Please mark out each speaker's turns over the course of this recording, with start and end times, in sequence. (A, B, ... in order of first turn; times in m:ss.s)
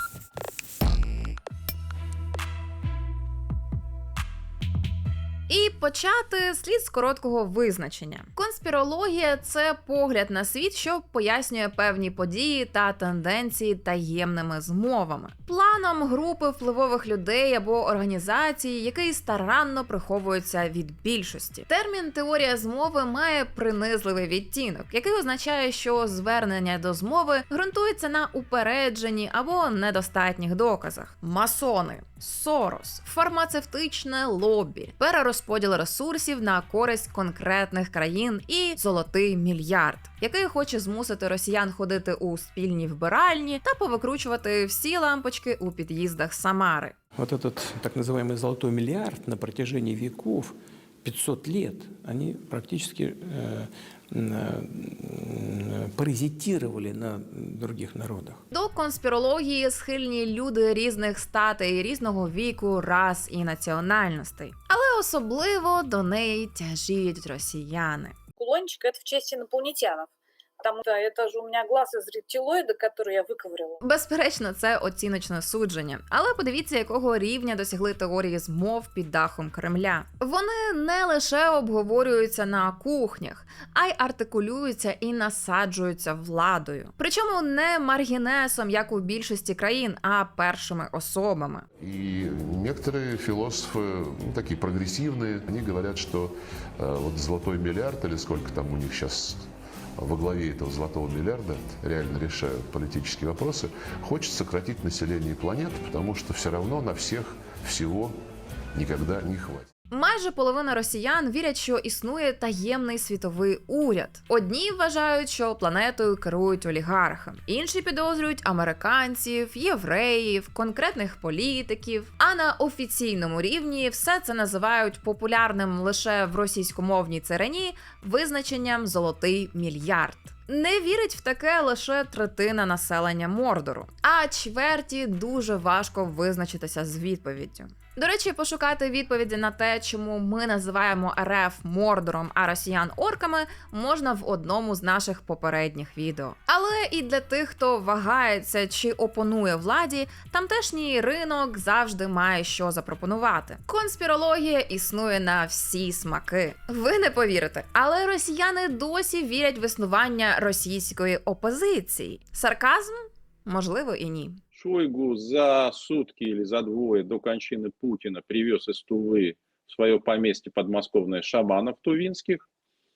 0:05.5-0:46.9 A
0:47.2-0:58.4 B
0:58.5-1:08.1 A
1:08.4-1:13.8 C
1:13.8-1:31.6 A
1:31.8-1:48.2 D
1:48.7-1:49.7 D
1:49.9-2:44.4 A
2:44.5-2:52.4 E